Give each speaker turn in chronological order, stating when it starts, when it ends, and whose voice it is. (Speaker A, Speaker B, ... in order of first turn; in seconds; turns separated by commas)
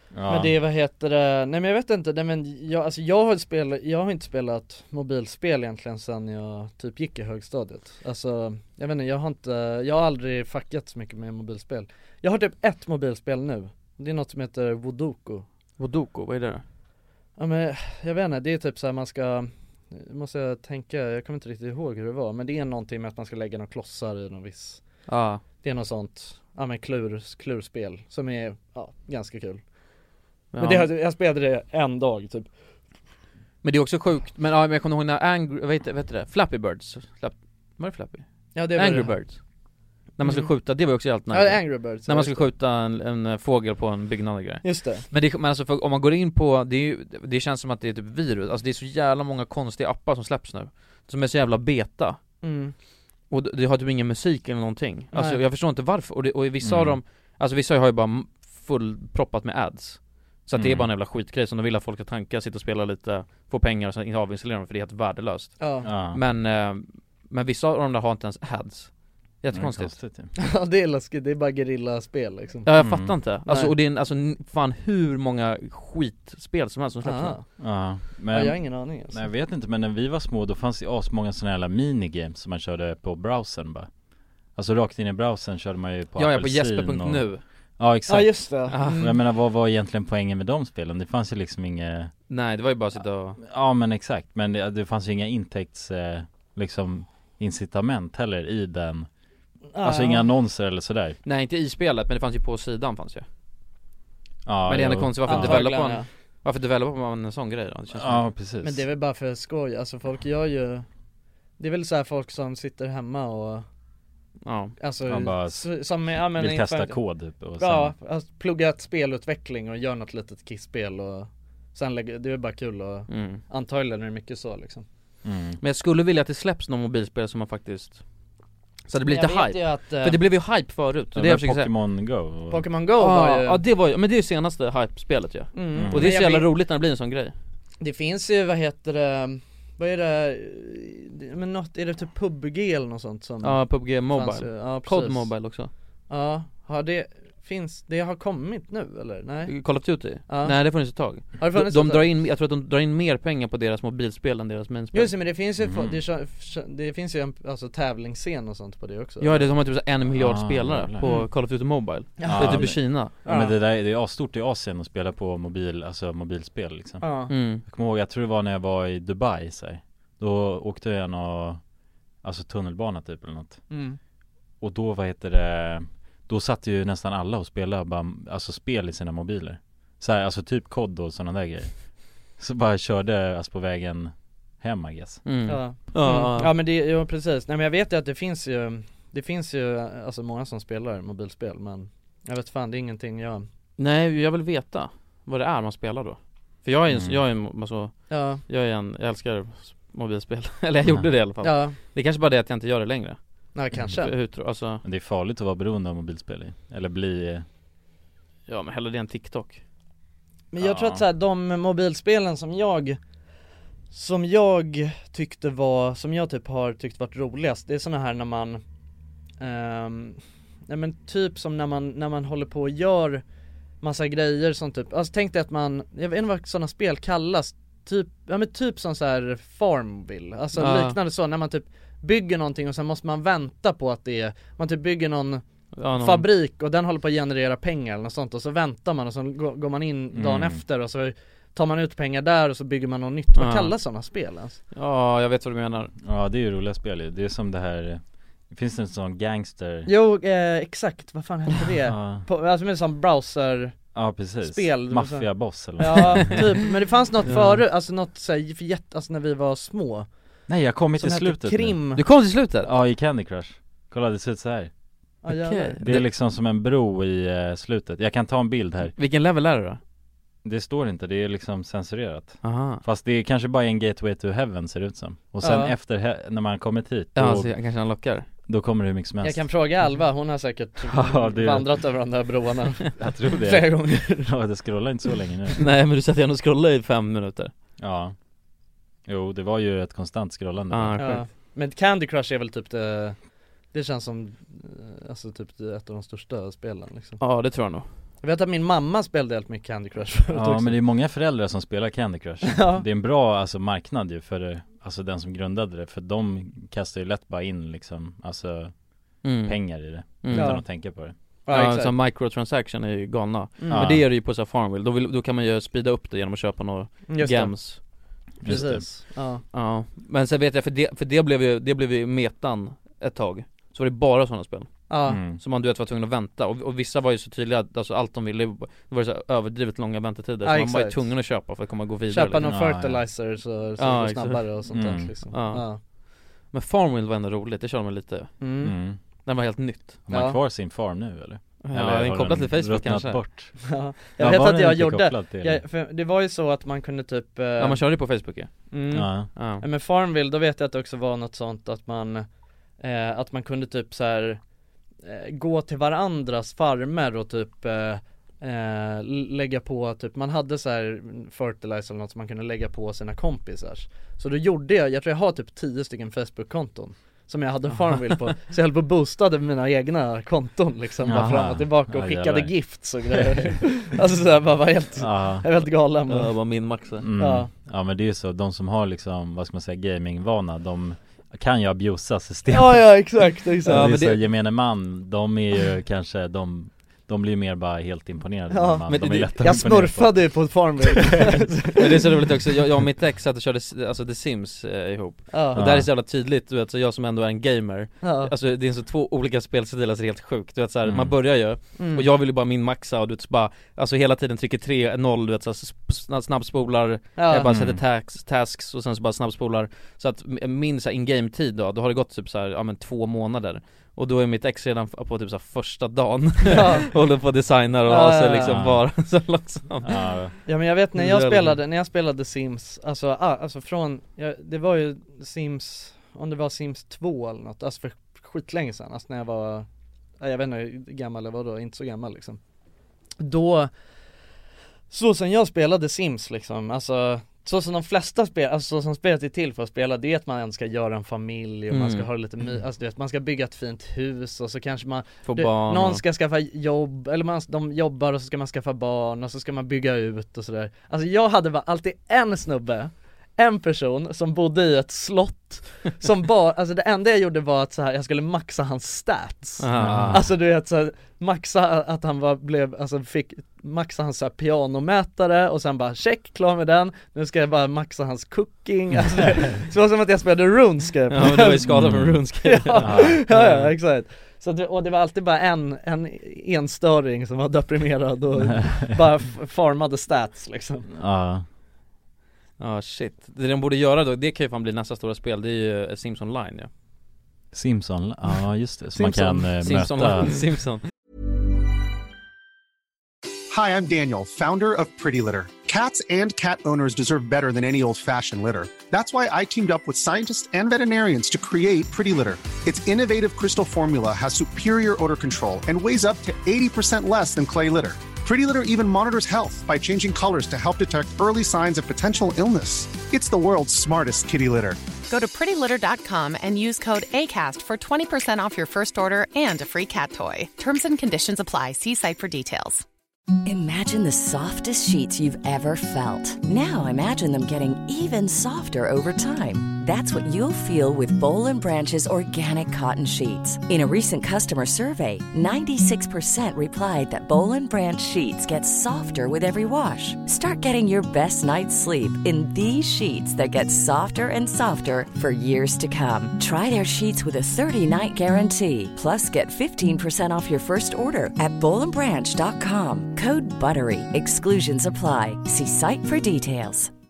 Speaker A: 0.1-0.5, Speaker B: 0.3-15.4, Speaker C: 15.8-16.6, Speaker B: 17.4-24.8, Speaker C: 25.1-25.4, Speaker B: 25.6-29.6, Speaker C: 30.5-30.9, Speaker B: 30.6-32.5, Speaker C: 33.6-39.4, Speaker B: 38.5-39.4, Speaker C: 40.2-52.2, Speaker B: 40.2-42.5, Speaker B: 44.6-45.0, Speaker B: 52.4-52.7, Speaker C: 53.3-70.0, Speaker B: 55.1-55.4, Speaker A: 56.6-57.0, Speaker A: 60.5-60.9, Speaker B: 65.6-65.9, Speaker A: 65.8-66.2, Speaker A: 69.5-70.3, Speaker B: 70.4-72.8, Speaker C: 72.6-77.4, Speaker A: 72.8-73.2, Speaker B: 73.5-73.7, Speaker B: 77.0-77.7, Speaker A: 77.6-83.9, Speaker B: 78.3-79.2, Speaker A: 84.5-87.3, Speaker C: 86.2-87.4, Speaker A: 87.8-92.1, Speaker B: 88.1-89.2, Speaker C: 88.7-89.0, Speaker C: 92.3-93.4, Speaker A: 93.4-99.1, Speaker B: 99.7-100.3, Speaker A: 99.8-101.2, Speaker C: 101.2-103.2, Speaker A: 104.4-105.7, Speaker C: 104.7-108.3, Speaker B: 105.2-106.1, Speaker A: 107.9-108.8, Speaker B: 108.6-110.8, Speaker B: 111.6-113.6, Speaker C: 114.4-114.8, Speaker B: 114.8-124.8, Speaker A: 115.0-117.9, Speaker C: 123.1-123.4, Speaker A: 125.2-125.6, Speaker C: 125.6-128.0, Speaker C: 128.9-131.7, Speaker B: 129.0-130.2, Speaker A: 131.1-132.7, Speaker B: 132.5-133.6, Speaker C: 133.0-137.3, Speaker B: 135.5-136.5, Speaker A: 135.7-136.1, Speaker B: 137.8-145.6, Speaker C: 143.4-145.7, Speaker B: 146.1-152.1, Speaker C: 149.5-155.1, Speaker B: 154.9-159.5, Speaker A: 155.6-156.0, Speaker C: 159.2-163.1, Speaker A: 160.1-161.0, Speaker B: 161.0-161.3, Speaker B: 162.2-163.5, Speaker A: 162.2-171.6, Speaker B: 167.0-167.3, Speaker C: 167.3-167.6, Speaker A: 172.2-173.7, Speaker B: 173.7-174.0, Speaker A: 174.6-185.2, Speaker C: 185.2-186.5, Speaker B: 185.4-193.4, Speaker C: 193.8-203.2, Speaker A: 196.9-197.2, Speaker B: 198.1-198.4, Speaker B: 201.4-201.8, Speaker B: 203.5-204.1, Speaker C: 203.8-204.8, Speaker A: 204.8-207.4, Speaker C: 208.5-209.6, Speaker B: 210.5-213.0, Speaker A: 210.6-211.0, Speaker B: 213.9-218.6, Speaker B: 219.4-223.2, Speaker B: 223.8-235.4, Speaker C: 230.6-231.0, Speaker C: 235.7-236.2, Speaker B: 236.0-244.6, Speaker A: 240.1-240.6, Speaker C: 243.3-243.7, Speaker C: 244.7-245.9, Speaker A: 246.0-249.9, Speaker B: 249.8-260.1, Speaker A: 251.8-252.2, Speaker A: 253.9-256.4, Speaker C: 256.0-256.4, Speaker C: 257.2-257.6, Speaker A: 260.5-261.8, Speaker B: 260.9-262.0, Speaker C: 261.9-262.7, Speaker A: 262.4-264.7, Speaker B: 265.2-266.0, Speaker C: 265.3-266.0, Speaker A: 265.8-268.9, Speaker C: 268.9-269.8, Speaker A: 270.4-277.6, Speaker C: 272.4-272.8, Speaker B: 275.4-275.7, Speaker C: 277.1-278.3, Speaker A: 278.4-279.5, Speaker B: 279.2-284.3, Speaker A: 280.9-281.8, Speaker A: 282.9-285.6, Speaker C: 285.6-287.5, Speaker A: 287.8-288.1, Speaker A: 289.1-291.1, Speaker C: 290.7-291.2, Speaker B: 291.0-293.2, Speaker B: 293.7-297.2, Speaker C: 297.2-297.9, Speaker B: 298.2-300.8, Speaker A: 300.3-311.1, Speaker B: 302.4-302.8, Speaker C: 309.2-310.9, Speaker B: 310.3-311.9, Speaker C: 311.5-317.8, Speaker B: 313.6-313.9, Speaker A: 313.7-314.1, Speaker B: 317.1-319.4, Speaker A: 318.4-318.9, Speaker C: 319.5-332.5, Speaker B: 324.9-325.2, Speaker A: 325.1-325.4, Speaker B: 330.4-331.2, Speaker B: 332.1-335.8, Speaker A: 332.4-333.0, Speaker C: 333.8-334.6, Speaker A: 334.7-335.1, Speaker C: 335.3-335.9, Speaker C: 336.4-338.4, Speaker B: 338.4-338.7, Speaker A: 338.6-339.0, Speaker C: 339.2-340.0, Speaker A: 340.1-345.6, Speaker B: 340.1-340.4, Speaker C: 341.6-343.2, Speaker B: 343.6-347.8, Speaker C: 347.6-349.6, Speaker B: 348.7-352.2, Speaker A: 348.9-349.3, Speaker B: 352.8-354.4, Speaker B: 355.0-377.5, Speaker C: 367.8-368.0, Speaker A: 371.0-373.6, Speaker A: 374.9-375.4, Speaker C: 376.1-377.0, Speaker A: 377.0-391.4, Speaker B: 382.5-384.0, Speaker C: 383.6-384.2, Speaker B: 388.5-392.0, Speaker C: 388.9-389.5, Speaker C: 391.7-420.4, Speaker B: 395.3-395.6, Speaker A: 395.5-395.9, Speaker B: 398.0-398.3, Speaker A: 400.8-401.2, Speaker B: 401.8-402.1, Speaker B: 407.2-407.5, Speaker A: 407.5-407.8, Speaker B: 416.5-416.9, Speaker B: 417.9-418.6, Speaker A: 418.4-418.9, Speaker A: 419.8-420.4, Speaker B: 420.4-429.7, Speaker C: 420.9-421.6, Speaker B: 430.2-432.4, Speaker B: 433.2-433.7, Speaker B: 434.9-471.8, Speaker C: 441.7-442.1, Speaker C: 445.2-446.0, Speaker C: 459.6-460.2, Speaker A: 459.8-460.3, Speaker C: 471.1-473.7, Speaker A: 471.7-472.2, Speaker B: 472.4-480.9, Speaker A: 472.8-473.2, Speaker A: 478.4-478.9, Speaker A: 480.9-481.4, Speaker C: 482.6-486.7, Speaker A: 487.5-490.6, Speaker B: 489.0-489.5, Speaker C: 489.6-490.9, Speaker D: 493.5-514.8, Speaker E: 515.1-522.8, Speaker F: 523.4-556.9